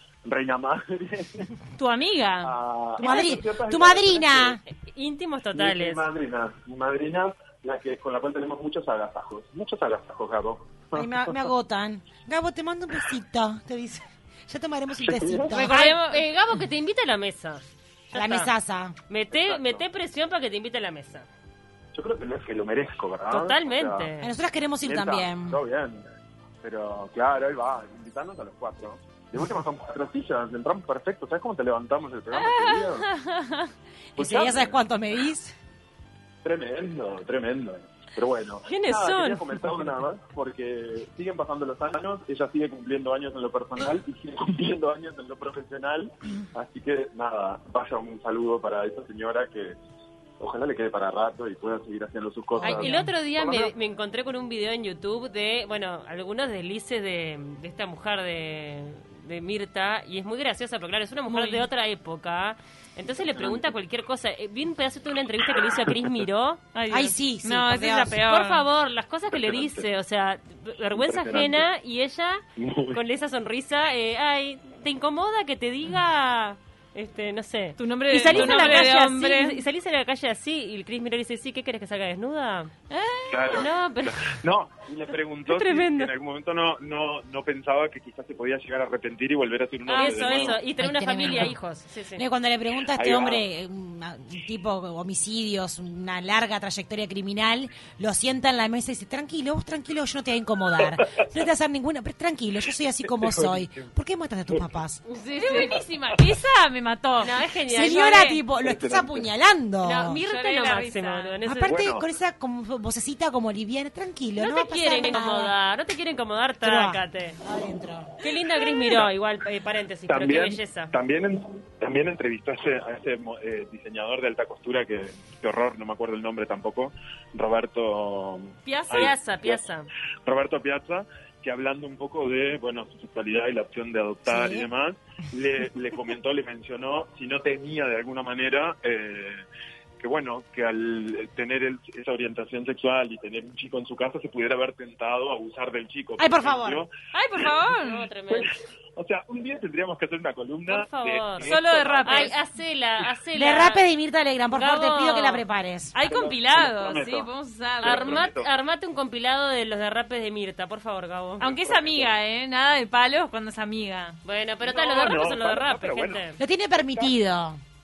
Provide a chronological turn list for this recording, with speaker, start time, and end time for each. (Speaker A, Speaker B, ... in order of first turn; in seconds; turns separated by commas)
Speaker A: 0.2-1.5, Speaker B: 1.8-2.5, Speaker A: 2.4-4.6, Speaker C: 3.0-4.6, Speaker D: 4.8-6.0, Speaker A: 5.5-11.5, Speaker C: 11.0-15.9, Speaker A: 15.0-15.7, Speaker B: 15.4-16.2, Speaker D: 15.7-18.5, Speaker C: 18.1-19.0, Speaker D: 19.1-21.3, Speaker A: 19.3-19.9, Speaker A: 21.9-24.1, Speaker D: 23.3-24.3, Speaker C: 24.2-25.6, Speaker A: 24.8-26.0, Speaker A: 26.6-33.1, Speaker B: 32.3-33.7, Speaker C: 34.2-35.5, Speaker A: 34.2-34.8, Speaker A: 36.4-49.8, Speaker D: 38.6-39.9, Speaker A: 50.4-53.7, Speaker B: 52.6-53.1, Speaker D: 52.6-66.6, Speaker B: 61.2-61.7, Speaker A: 63.0-63.7, Speaker B: 66.7-68.7, Speaker C: 66.9-68.2, Speaker D: 68.2-82.7, Speaker A: 69.3-69.9, Speaker A: 70.9-71.7, Speaker A: 72.6-73.0, Speaker B: 77.8-79.6, Speaker A: 78.2-78.7, Speaker B: 82.9-83.6, Speaker A: 83.3-90.7, Speaker D: 83.5-84.3, Speaker D: 85.5-86.1, Speaker D: 89.9-92.2, Speaker C: 90.7-91.6, Speaker C: 92.2-105.0, Speaker A: 92.9-93.4, Speaker A: 103.0-103.8, Speaker B: 105.1-108.4, Speaker D: 107.2-108.0, Speaker C: 107.7-110.2, Speaker A: 108.6-109.3, Speaker D: 109.8-111.8, Speaker B: 110.2-111.4, Speaker C: 111.5-115.5, Speaker A: 111.7-112.0, Speaker B: 114.4-115.5, Speaker D: 114.8-117.4, Speaker C: 116.6-118.1, Speaker D: 118.2-120.9, Speaker A: 120.1-129.6, Speaker B: 128.6-129.1, Speaker D: 128.9-129.9, Speaker A: 130.2-139.4, Speaker C: 134.3-134.7, Speaker A: 140.0-147.5, Speaker C: 146.2-146.9, Speaker B: 147.1-148.1, Speaker D: 147.8-148.5, Speaker A: 148.3-152.3, Speaker D: 150.7-153.8, Speaker B: 151.4-152.4, Speaker C: 153.3-156.0, Speaker D: 154.5-155.4, Speaker B: 155.9-158.3, Speaker A: 156.0-158.5, Speaker D: 157.8-161.5, Speaker B: 161.4-164.2, Speaker A: 161.4-162.2, Speaker D: 164.2-166.4, Speaker A: 164.7-166.2, Speaker C: 166.4-167.6